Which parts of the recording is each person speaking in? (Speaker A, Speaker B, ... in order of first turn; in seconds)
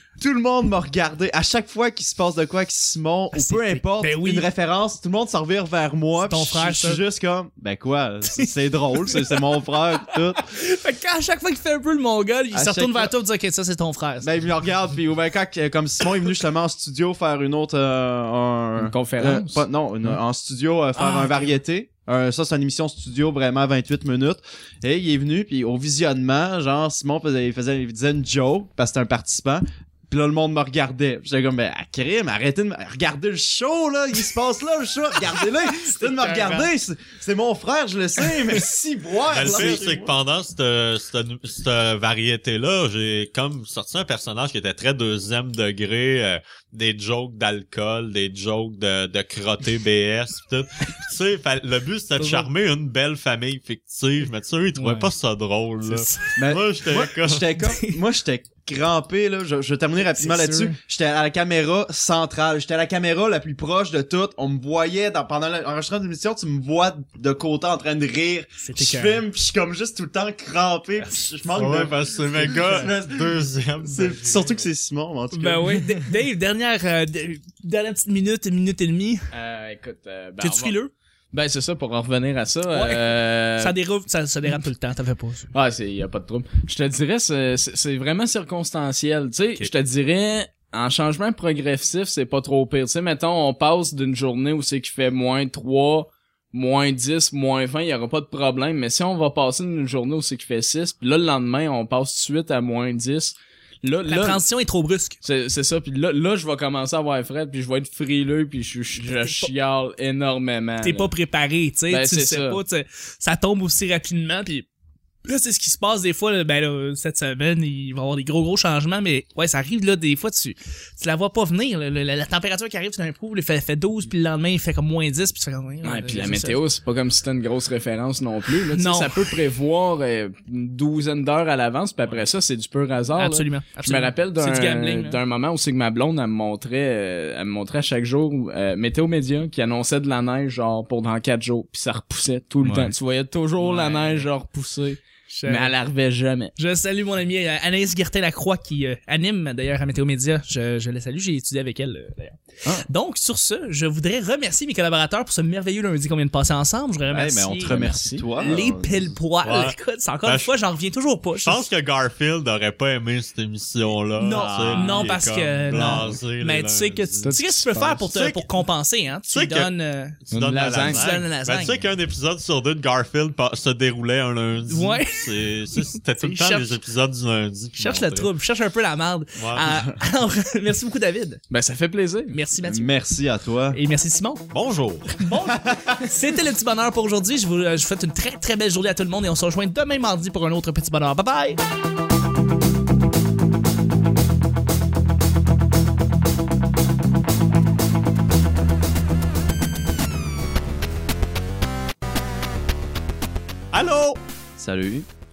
Speaker A: 0.2-10.4, 12.5-13.1, 14.2-40.1, 56.4-76.0, 157.1-159.2, 182.6-183.8, 185.5-186.1, 204.6-205.1
Speaker B: 3.3-4.5, 6.2-7.0, 9.1-9.4, 10.1-14.3, 20.9-21.5, 35.9-36.7, 39.5-39.7, 52.2-52.5, 54.8-55.1, 55.9-56.4, 57.6-57.9, 60.2-60.7, 68.6-69.2, 75.3-79.3, 80.4-80.9, 82.7-85.5, 104.0-105.2, 109.0-109.5, 110.8-114.7, 115.2-126.6, 128.7-129.3, 133.2-135.2, 142.6-142.9, 143.6-144.3, 145.3-145.7, 146.6-161.6, 164.2-170.2, 170.7-171.8, 174.7-175.3, 176.2-176.7, 177.8-181.4, 182.3-182.9, 183.7-184.4, 185.1-191.6
Speaker C: 18.8-19.6, 79.3-80.8, 81.3-83.8, 85.5-104.4, 105.2-111.1, 111.9-112.6, 125.8-146.5, 157.7-158.3, 164.3-165.1, 165.7-166.1, 167.2-168.1, 170.3-171.1, 181.5-182.4
Speaker D: 39.3-57.5, 71.5-74.6, 159.4-160.5, 161.4-167.3, 168.1-168.5, 169.3-169.7, 170.3-178.3, 179.4-179.8, 184.5-185.2, 203.7-204.2